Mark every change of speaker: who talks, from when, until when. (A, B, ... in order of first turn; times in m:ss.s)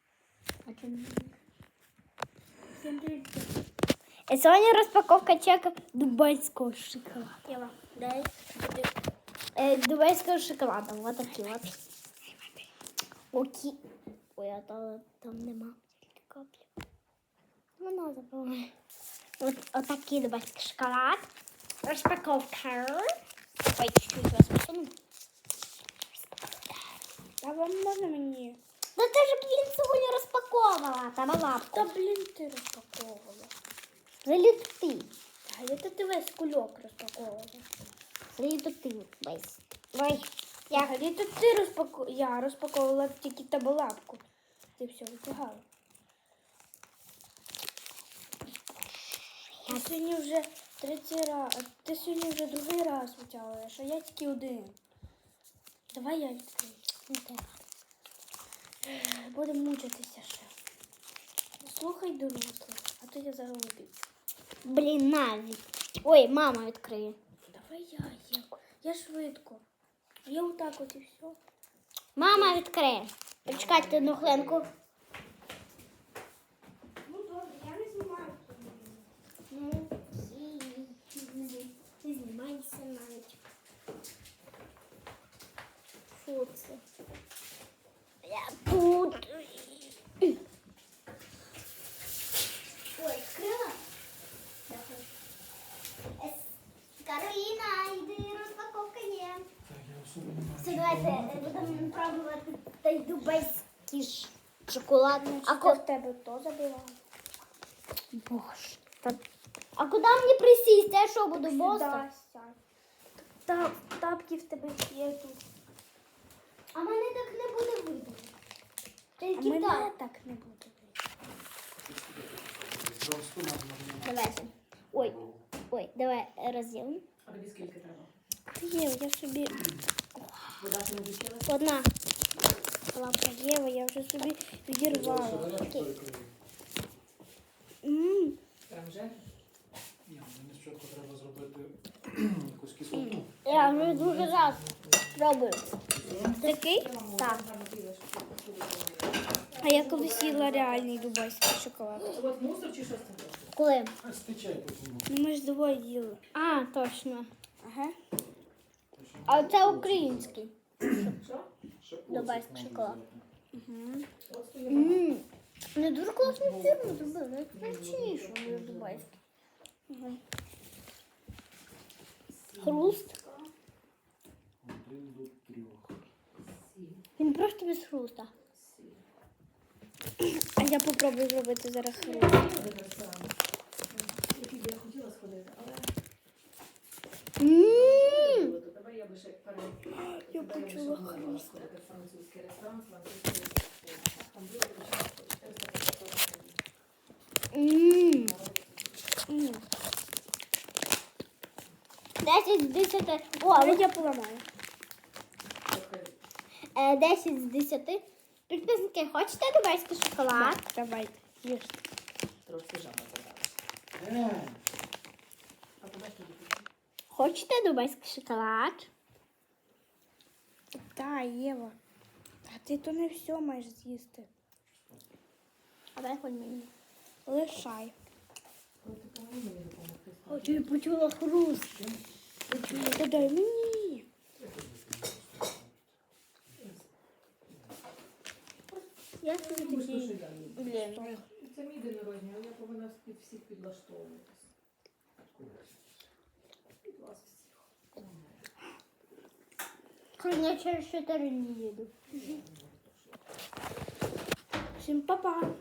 0:00.6-0:01.3 A
0:02.8-0:03.5 B
0:04.3-0:07.4 A
0:07.5-0:08.9 B
0:09.6-0:11.8 A
0:13.3-0:13.8 A
0:14.4-0:16.6 A
0:17.8-0:18.7 A
0:19.4-0:21.3 A
0:21.8-0:23.1 A
0:23.7-0:25.0 A
0:27.4-0:28.6 B
0:29.0-0:31.9 A
0:31.7-0:33.5 B
0:34.2-0:35.1 A
0:35.5-0:37.6 B
0:38.3-0:40.9 A
0:40.7-0:44.2 B
0:44.8-0:45.6 B
0:49.6-0:49.9 A
0:49.7-0:54.8 B
0:55.9-0:56.9 B
0:57.1-0:57.4 A
0:58.8-1:00.5 B
1:01.6-1:04.1 B
1:04.6-1:07.2 A
1:07.5-1:09.6 B
1:10.3-1:11.4 B
1:12.2-1:14.7 A
1:12.3-1:12.6 B
1:13.5-1:14.7 C
1:17.0-1:19.1 B
1:19.5-1:23.4 A
1:26.1-1:26.8 A
1:28.2-1:30.3 A
1:33.0-1:33.8 A
1:34.7-1:35.1 A
1:36.2-1:39.5 A
1:39.6-1:41.9 D
1:40.6-1:45.8 A
1:45.2-1:47.0 B
1:48.1-1:49.2 A
1:49.8-1:52.0 A
1:51.4-1:52.6 B
1:53.2-1:55.4 B
1:56.7-1:58.3 A
1:59.2-1:59.9 A
1:59.4-2:01.0 B
2:01.8-2:04.2 D
2:04.0-2:05.2 A
2:04.9-2:05.4 D
2:05.7-2:07.0 A
2:07.2-2:08.1 C
2:08.5-2:10.2 B
2:10.6-2:11.5 C
2:11.5-2:11.9 A
2:12.9-2:15.5 B
2:14.8-2:16.3 D
2:17.8-2:18.4 B
2:18.7-2:19.2 C
2:20.0-2:23.4 D
2:23.3-2:25.8 A
2:23.5-2:25.2 C
2:26.0-2:26.4 D
2:26.0-2:31.1 C
2:26.4-2:27.4 A
2:29.6-2:32.2 B
2:32.1-2:33.5 C
2:33.5-2:34.0 A
2:34.0-2:35.1 D
2:35.1-2:36.2 B
2:36.3-2:37.3 A
2:37.6-2:38.0 B
2:38.9-2:41.1 D
2:39.3-2:41.2 A
2:41.2-2:41.5 C
2:41.8-2:43.3 D
2:42.1-2:43.0 A
2:43.5-2:44.1 B
2:44.3-2:45.2 C
2:44.7-2:49.1 A
2:46.2-2:49.2 C
2:49.9-2:50.2 B
2:52.3-2:53.5 C
2:52.6-2:53.2 A
2:54.6-2:56.0 D
2:56.4-2:57.0 C
2:57.2-2:58.3 A
2:58.5-2:59.0 C
3:00.2-3:02.5 B
3:02.0-3:03.4 C
3:03.9-3:05.9 C
3:07.4-3:08.5 A
3:07.6-3:16.6 C
3:09.9-3:11.6 B
3:17.5-3:18.4 A
3:18.0-3:19.1 C
3:19.3-3:19.6 B
3:22.2-3:23.9 A
3:23.4-3:24.4 B
3:25.7-3:26.2 C
3:26.7-3:30.6 A
3:30.3-3:31.8 B
3:32.4-3:33.5 C
3:34.0-3:34.6 D
3:35.8-3:36.7 C
3:37.1-3:38.9 A
3:40.7-3:41.8 B
3:42.5-3:44.3 B
3:46.0-3:46.7 A
3:47.3-3:48.0 B
3:48.8-3:51.1 C
3:50.3-3:51.8 A
3:51.7-3:52.0 D
3:52.5-3:53.3 C
3:52.5-3:53.0 D
3:52.7-3:54.1 B
3:54.4-3:55.9 D
3:56.6-3:56.9 C
3:59.2-4:01.2 B
3:59.3-4:00.0 A
3:59.4-4:00.7 C
4:00.6-4:01.2 A
4:01.3-4:04.5 C
4:05.3-4:05.9 D
4:06.8-4:08.5 C
4:10.2-4:12.3 A
4:12.1-4:13.2 C
4:14.8-4:15.5 B